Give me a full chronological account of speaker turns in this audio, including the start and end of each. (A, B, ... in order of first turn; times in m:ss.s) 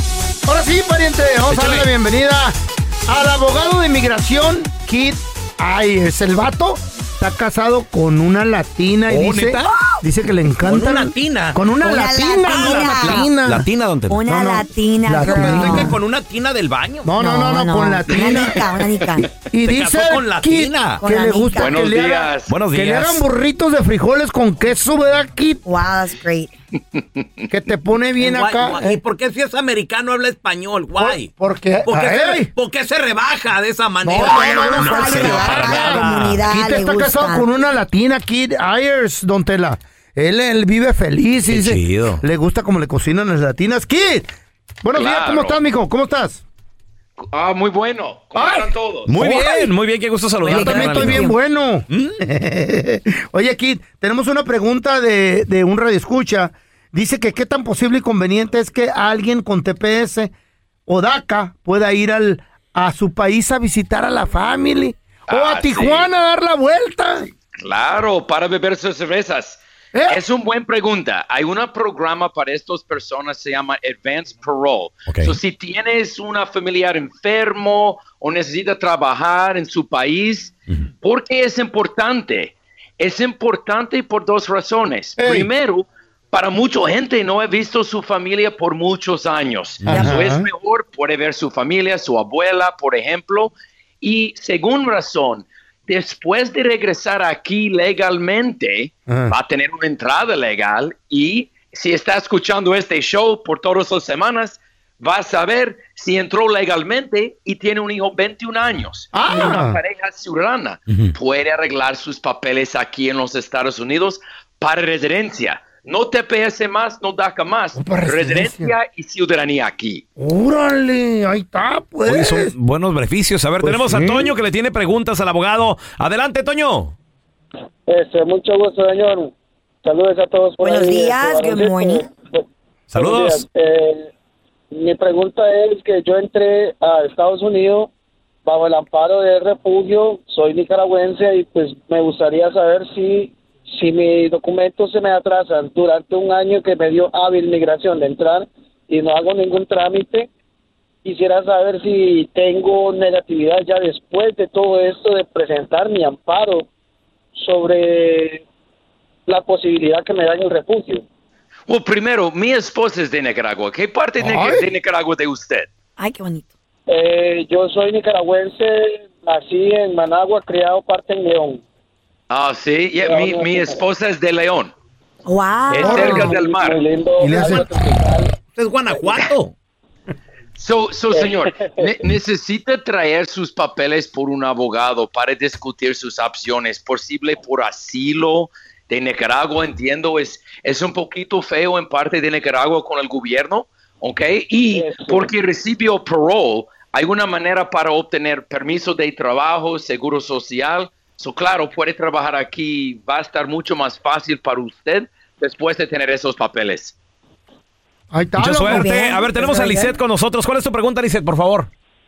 0:00.4-0:13.6 A
0:01.5-0:01.9 B
0:09.1-0:09.7 B
0:10.6-0:11.6 B
0:11.8-0:13.3 C
0:12.4-0:14.2 B
0:14.1-0:16.0 C
0:14.3-0:16.0 A
0:15.2-0:17.1 B
0:17.0-0:18.6 A
0:17.2-0:19.2 C
0:19.5-0:25.6 A
0:19.6-0:21.0 B
0:21.0-0:21.8 C
0:21.5-0:22.5 D
0:22.4-0:23.2 B
0:25.6-0:26.5 C
0:26.9-0:27.4 D
0:27.5-0:29.0 A
0:28.2-0:31.3 B
0:31.0-0:32.5 A
0:31.8-0:36.4 B
0:34.0-0:44.3 A
0:34.1-0:37.4 C
0:41.4-0:42.2 B
0:44.8-0:46.4 A
0:44.9-0:45.6 D
0:47.2-0:49.1 D
0:48.3-0:49.7 A
0:49.1-0:51.3 B
0:50.4-0:51.3 C
0:50.4-1:00.3 A
0:51.9-0:52.2 B
1:00.9-1:07.3 A
1:05.3-1:06.1 D
1:07.5-2:00.0 D
1:09.9-1:10.2 A
1:15.1-1:15.4 B
1:25.2-1:25.5 A
1:29.8-1:30.5 A
1:39.1-1:39.3 A
1:49.1-1:49.8 A
1:50.9-1:51.1 B
1:57.7-1:58.7 A
2:00.2-2:02.5 A
2:02.0-2:06.9 B
2:03.6-2:04.3 A
2:07.9-2:09.3 E
2:09.8-2:12.4 E
2:10.6-2:12.0 C
2:12.9-2:13.4 B
2:13.0-2:14.1 E
2:14.7-2:17.9 E
2:18.4-2:30.3 E
2:31.0-2:36.7 E
2:37.4-2:38.4 E
2:39.3-2:41.0 E
2:41.7-2:45.7 D
2:44.2-2:44.7 A
2:46.0-2:46.5 C
2:46.9-2:51.6 E
2:52.3-2:54.7 D
2:53.0-2:53.8 E
2:55.2-2:56.3 C
2:55.7-2:56.8 D
2:55.8-2:58.3 E
2:55.8-2:56.3 A
2:57.2-2:57.7 A
2:58.6-2:59.5 B
3:00.6-3:26.9 D
3:01.1-3:02.0 E
3:14.7-3:15.3 E
3:28.1-3:28.9 A
3:28.4-3:31.7 B
3:28.7-3:29.9 C